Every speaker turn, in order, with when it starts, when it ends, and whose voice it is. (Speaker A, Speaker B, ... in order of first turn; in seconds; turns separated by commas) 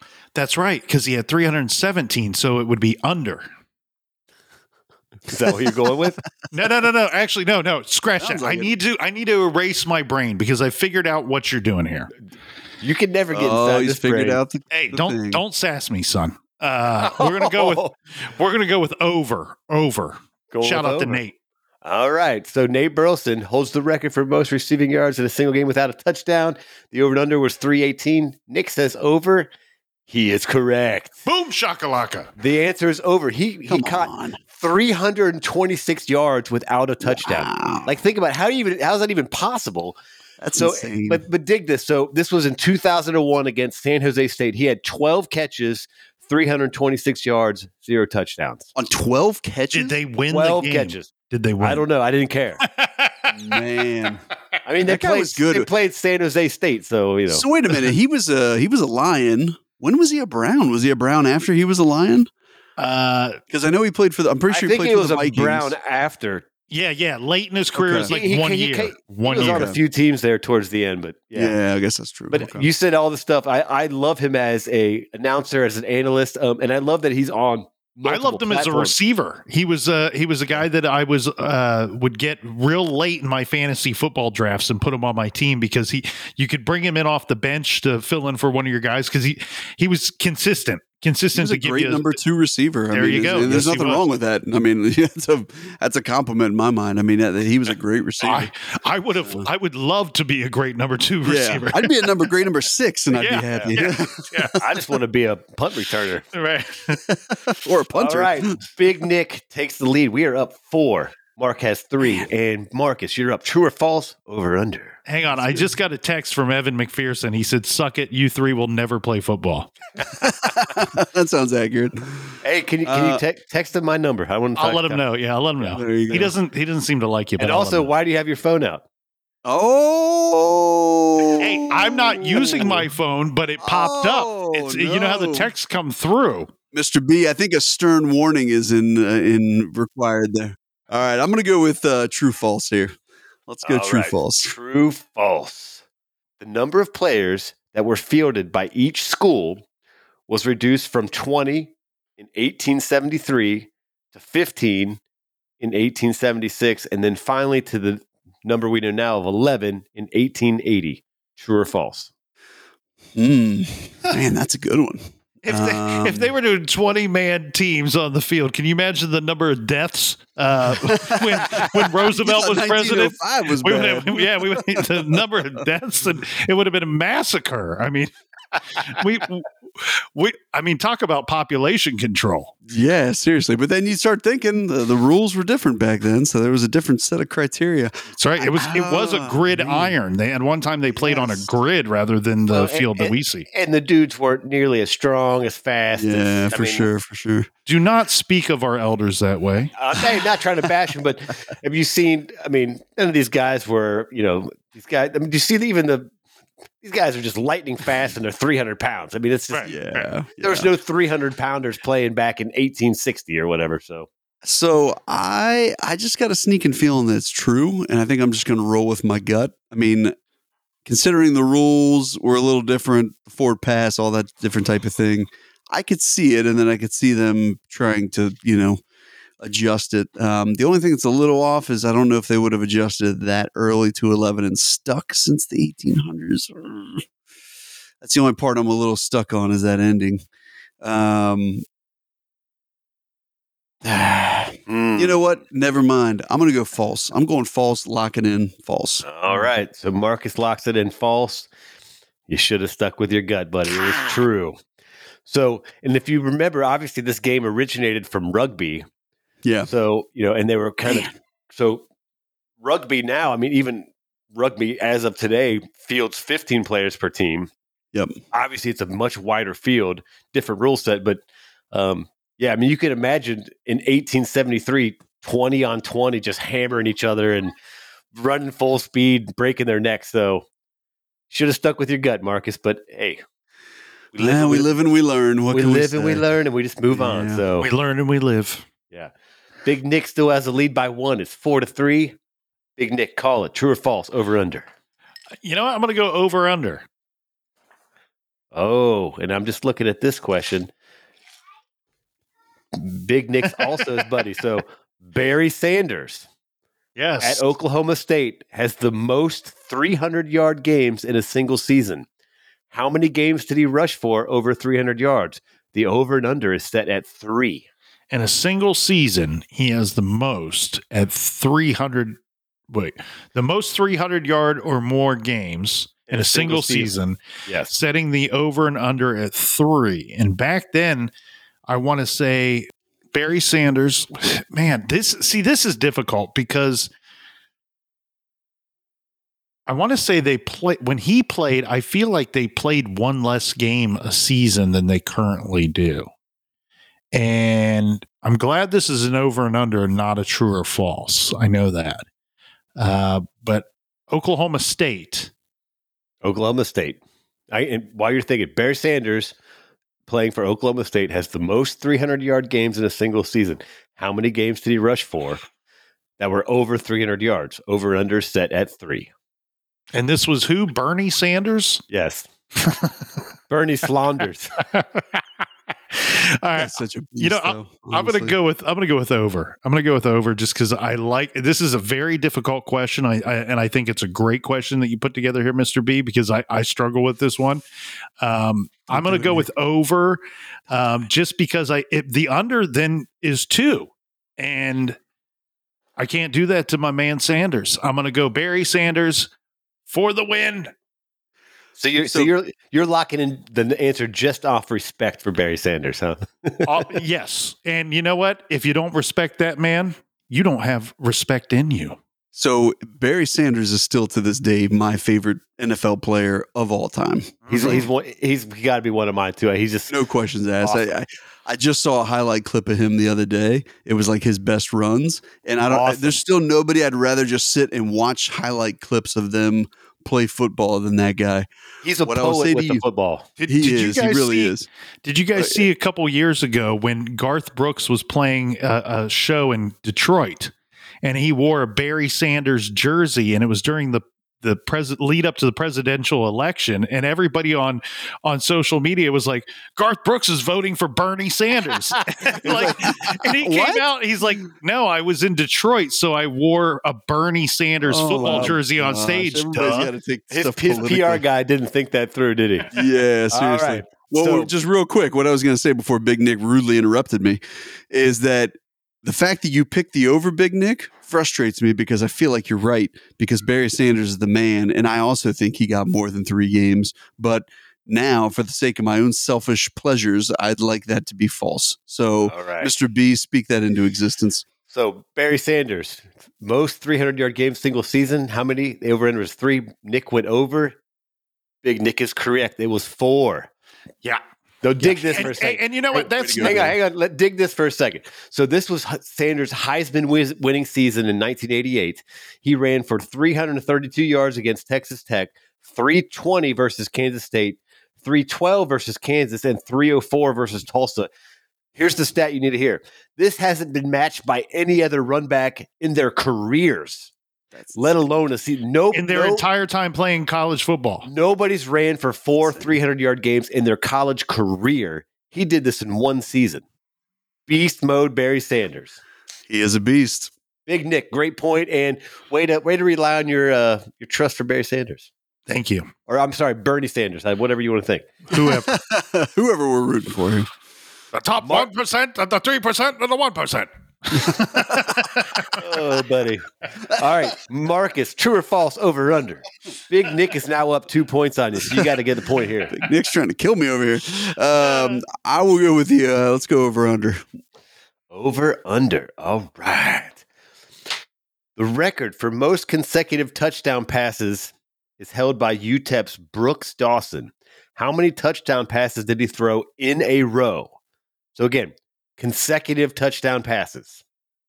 Speaker A: 0.3-3.5, Speaker B: 5.3-6.2, Speaker A: 6.5-12.1, Speaker C: 8.2-8.7, Speaker B: 12.8-14.4, Speaker C: 13.3-15.4, Speaker A: 14.7-21.4, Speaker B: 17.0-17.9, Speaker B: 20.5-21.2, Speaker B: 21.8-29.5, Speaker B: 30.1-31.2, Speaker A: 31.3-32.3, Speaker B: 32.4-40.0, Speaker C: 33.7-34.4, Speaker C: 37.0-38.0, Speaker C: 40.4-41.2, Speaker B: 40.6-48.7, Speaker C: 48.8-50.0, Speaker A: 49.7-51.8, Speaker B: 50.3-51.1, Speaker B: 51.6-52.6, Speaker A: 52.6-53.4, Speaker C: 53.3-54.2, Speaker B: 54.6-57.5, Speaker C: 54.8-55.7, Speaker C: 57.3-62.3, Speaker A: 62.8-63.4, Speaker C: 63.5-65.7, Speaker B: 64.5-66.5, Speaker A: 66.7-69.7, Speaker C: 67.8-68.2, Speaker B: 67.9-71.5, Speaker C: 69.3-69.8, Speaker C: 71.3-72.7, Speaker B: 72.3-78.9, Speaker A: 78.0-92.2, Speaker C: 91.4-98.5, Speaker A: 92.9-94.0, Speaker A: 98.2-102.2, Speaker C: 101.2-104.6, Speaker A: 103.1-104.7, Speaker B: 103.5-103.9, Speaker B: 104.6-106.2, Speaker A: 106.3-107.0, Speaker C: 107.1-108.6, Speaker B: 108.0-115.0, Speaker A: 115.1-119.7, Speaker C: 115.3-115.7, Speaker C: 120.2-123.2, Speaker B: 122.4-125.0, Speaker A: 124.6-127.9, Speaker C: 125.6-126.3, Speaker B: 127.4-128.8, Speaker C: 129.4-132.9, Speaker A: 131.4-136.5, Speaker C: 133.6-135.5, Speaker C: 136.7-143.0, Speaker C: 143.5-144.5, Speaker B: 143.6-145.8, Speaker B: 146.4-149.7, Speaker B: 150.3-155.0, Speaker B: 155.6-162.1, Speaker C: 163.2-166.3, Speaker A: 165.5-182.5, Speaker C: 170.8-175.2, Speaker C: 182.7-189.9, Speaker A: 188.2-193.5, Speaker C: 190.9-191.5, Speaker B: 192.5-196.9, Speaker C: 196.0-197.5, Speaker A: 197.7-199.7, Speaker B: 199.8-206.1, Speaker B: 206.8-209.7, Speaker A: 209.5-210.1, Speaker C: 209.7-210.7, Speaker B: 210.4-214.1, Speaker C: 214.4-220.1, Speaker C: 220.8-228.8, Speaker C: 229.4-237.0, Speaker C: 238.0-240.2, Speaker C: 240.8-241.6, Speaker C: 243.8-249.1, Speaker B: 244.7-245.2, Speaker B: 249.1-251.5, Speaker B: 252.3-254.6, Speaker B: 255.3-258.9, Speaker C: 259.4-259.7, Speaker B: 259.7-261.8, Speaker B: 262.6-267.5, Speaker B: 268.3-277.5, Speaker B: 278.1-280.5, Speaker B: 281.3-283.2, Speaker B: 284.1-284.7, Speaker C: 284.2-286.3, Speaker B: 285.5-287.7, Speaker C: 286.9-287.4, Speaker A: 287.6-288.7, Speaker B: 289.6-292.2, Speaker B: 292.8-294.7, Speaker A: 295.4-296.9, Speaker B: 298.5-300.7, Speaker B: 302.7-306.3, Speaker A: 303.5-303.8, Speaker A: 307.0-307.4, Speaker B: 307.2-312.1, Speaker B: 312.7-317.7, Speaker A: 318.1-322.2, Speaker A: 322.7-331.1, Speaker B: 326.1-326.9, Speaker B: 327.5-327.7, Speaker A: 331.7-336.9, Speaker A: 339.7-346.1, Speaker A: 347.1-352.0, Speaker A: 352.8-355.3, Speaker B: 356.2-357.0, Speaker B: 357.5-359.3, Speaker B: 360.1-365.4, Speaker B: 366.2-369.1, Speaker A: 369.9-371.8, Speaker B: 371.9-372.3, Speaker A: 372.6-373.1, Speaker B: 373.5-374.5, Speaker A: 374.6-375.4, Speaker A: 375.9-387.6, Speaker C: 376.6-378.4, Speaker A: 388.2-395.0, Speaker C: 388.9-389.5, Speaker A: 396.0-399.3, Speaker A: 399.9-400.7, Speaker B: 401.8-406.7, Speaker A: 406.7-412.0, Speaker C: 412.4-417.8, Speaker A: 417.5-417.9, Speaker B: 417.5-419.9, Speaker C: 419.9-431.5, Speaker B: 420.6-420.9, Speaker B: 425.7-426.2, Speaker B: 431.8-433.3, Speaker C: 432.0-432.8, Speaker A: 433.4-440.5, Speaker C: 433.5-434.7, Speaker C: 435.4-435.6, Speaker A: 441.0-459.9, Speaker B: 452.4-452.8, Speaker C: 452.4-453.8, Speaker C: 457.8-461.2, Speaker B: 458.2-458.5, Speaker B: 460.3-462.7, Speaker C: 462.7-484.4, Speaker B: 463.3-464.5, Speaker B: 482.3-482.7, Speaker B: 484.7-490.8, Speaker B: 491.6-493.5, Speaker B: 494.6-511.1, Speaker A: 494.9-496.7, Speaker C: 496.1-496.8, Speaker B: 511.8-517.1, Speaker C: 517.5-517.9, Speaker B: 517.8-519.4, Speaker A: 518.9-521.1, Speaker B: 521.0-526.6, Speaker B: 527.5-529.0, Speaker C: 529.5-530.3, Speaker B: 530.7-535.1, Speaker A: 535.5-535.9, Speaker B: 536.1-538.1, Speaker A: 538.3-538.7, Speaker C: 538.4-540.5, Speaker A: 541.1-545.6, Speaker B: 541.4-541.7, Speaker C: 544.2-545.0, Speaker B: 545.6-552.7, Speaker C: 552.7-557.2, Speaker B: 558.1-560.2, Speaker B: 561.6-570.8, Speaker B: 571.4-574.0